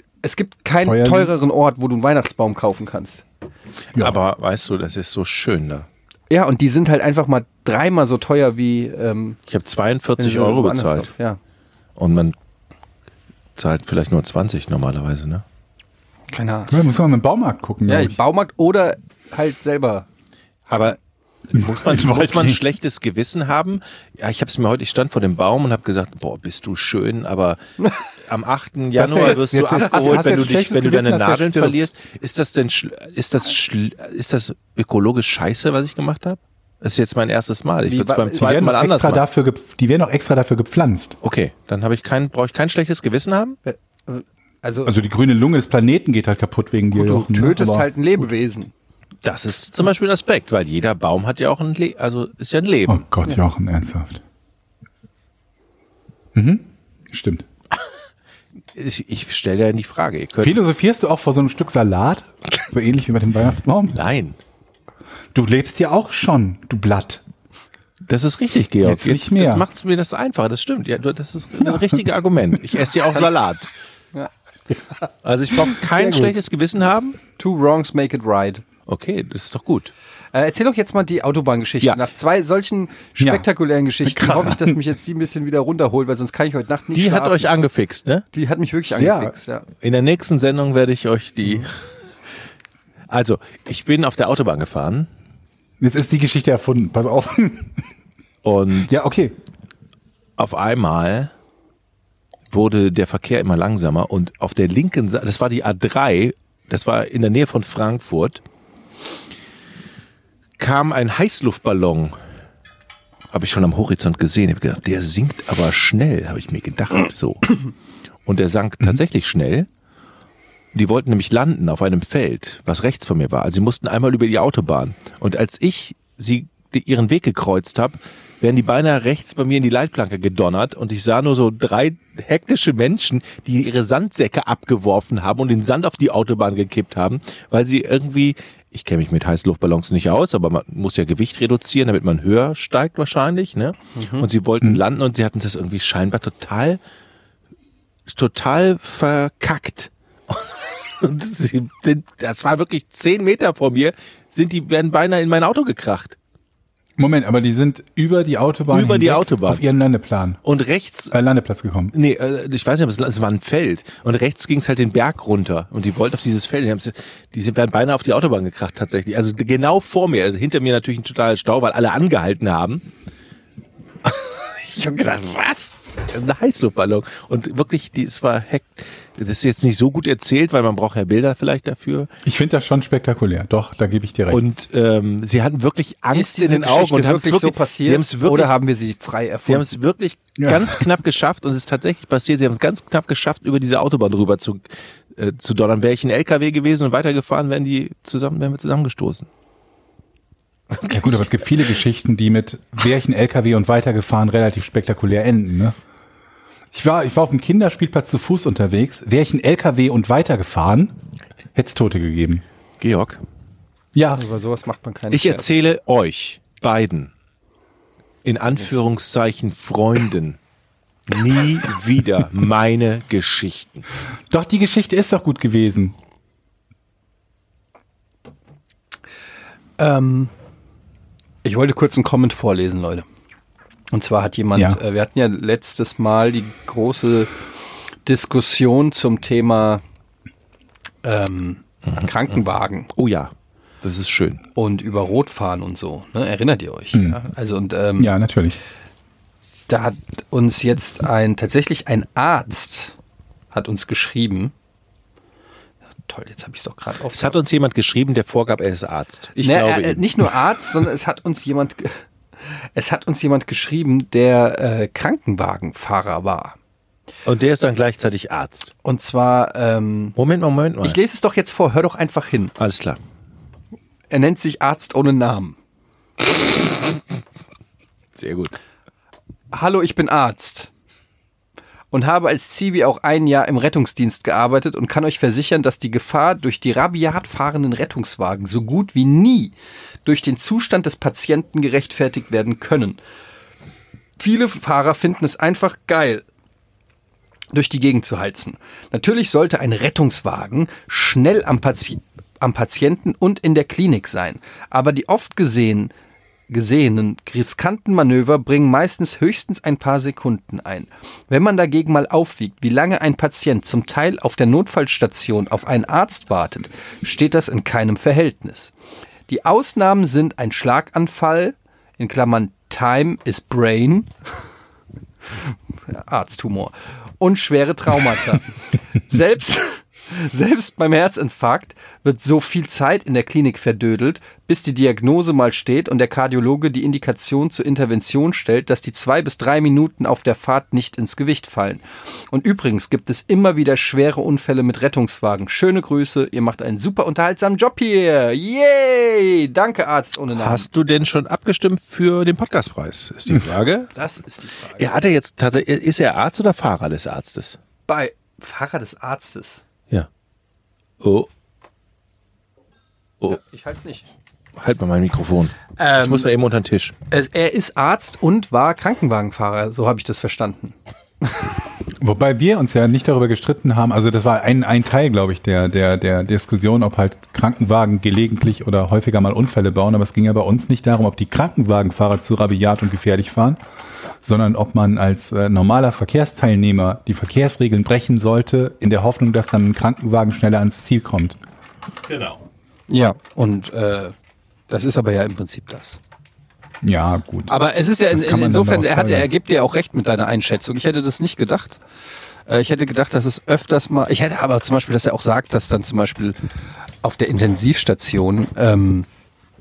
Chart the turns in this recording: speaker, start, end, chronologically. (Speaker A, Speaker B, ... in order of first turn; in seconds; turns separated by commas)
Speaker A: 0.2-3.2, Speaker B: 0.8-1.3, Speaker C: 4.0-5.9, Speaker A: 6.3-9.4, Speaker C: 9.5-11.1, Speaker A: 10.2-11.4, Speaker C: 12.0-12.3, Speaker C: 13.6-15.4, Speaker A: 16.3-16.7, Speaker B: 16.7-18.2, Speaker A: 17.9-20.1, Speaker C: 20.7-21.0, Speaker C: 21.5-27.6, Speaker B: 21.5-22.6, Speaker C: 28.2-39.2, Speaker B: 28.9-31.8, Speaker A: 29.8-30.3, Speaker A: 37.9-38.5, Speaker B: 38.4-41.2, Speaker C: 41.2-43.6, Speaker A: 43.6-44.9, Speaker B: 44.9-47.9, Speaker A: 46.9-48.7, Speaker C: 49.2-53.0, Speaker B: 52.9-54.2, Speaker B: 56.3-57.5, Speaker C: 58.7-60.6, Speaker B: 60.4-64.0, Speaker C: 63.9-64.4, Speaker B: 65.3-67.2, Speaker C: 68.1-73.7, Speaker B: 68.8-69.7, Speaker C: 75.2-77.2, Speaker A: 76.0-76.3, Speaker A: 77.4-78.6, Speaker C: 78.9-79.9, Speaker A: 80.3-87.6, Speaker B: 83.2-83.5, Speaker B: 84.0-84.8, Speaker C: 86.9-88.2, Speaker A: 88.3-89.7, Speaker B: 89.0-89.3, Speaker C: 89.8-91.7, Speaker C: 93.1-95.1, Speaker B: 95.8-97.8, Speaker C: 98.4-99.0, Speaker B: 98.9-99.4, Speaker C: 100.4-101.3, Speaker C: 102.5-108.4, Speaker C: 110.6-112.1, Speaker C: 113.3-117.7, Speaker C: 118.3-119.7, Speaker C: 120.7-146.8, Speaker A: 143.9-144.3, Speaker C: 148.1-156.2, Speaker B: 157.0-160.4, Speaker C: 158.7-159.6, Speaker C: 160.4-161.1, Speaker B: 161.1-161.9, Speaker C: 161.9-172.8, Speaker C: 174.0-182.1, Speaker B: 182.2-184.4, Speaker C: 184.3-188.6, Speaker A: 186.1-189.7, Speaker C: 189.4-199.3, Speaker B: 190.4-190.9, Speaker C: 200.7-201.1, Speaker B: 200.9-205.7, Speaker B: 206.7-210.9, Speaker B: 211.5-212.4, Speaker C: 212.8-213.2, Speaker B: 213.9-214.2, Speaker A: 214.1-215.5, Speaker C: 215.1-217.1, Speaker C: 218.2-220.4, Speaker C: 221.1-223.8, Speaker B: 224.3-225.9, Speaker A: 229.8-230.3, Speaker A: 231.4-233.1, Speaker A: 233.9-237.3, Speaker A: 238.1-239.8, Speaker A: 241.0-242.9, Speaker C: 242.9-244.4, Speaker A: 244.6-248.1, Speaker B: 246.9-247.2, Speaker B: 248.0-248.6, Speaker A: 249.7-252.9, Speaker A: 253.5-254.5, Speaker A: 256.1-257.4, Speaker C: 257.1-260.2, Speaker A: 259.4-266.6, Speaker C: 267.2-268.7, Speaker A: 268.8-270.2, Speaker C: 270.2-271.0, Speaker A: 270.8-272.6, Speaker C: 272.6-273.0, Speaker A: 274.1-275.6, Speaker C: 278.1-278.6, Speaker A: 279.5-280.7, Speaker A: 281.9-289.5, Speaker A: 290.1-293.0, Speaker A: 294.2-296.2, Speaker A: 297.5-305.9, Speaker A: 306.5-318.7, Speaker A: 319.3-324.1, Speaker A: 325.5-350.7, Speaker C: 350.3-353.9, Speaker A: 353.9-354.9, Speaker C: 354.8-357.6, Speaker A: 357.9-359.6, Speaker C: 361.0-361.3, Speaker A: 363.3-364.1, Speaker C: 364.6-366.9, Speaker A: 365.8-366.3, Speaker A: 367.1-371.4, Speaker B: 372.0-383.6, Speaker B: 384.2-391.4, Speaker C: 392.1-392.4, Speaker A: 392.9-394.1, Speaker A: 394.7-396.0, Speaker B: 396.8-397.5, Speaker A: 397.5-401.8, Speaker B: 398.1-399.3, Speaker A: 402.5-406.4, Speaker A: 407.0-409.1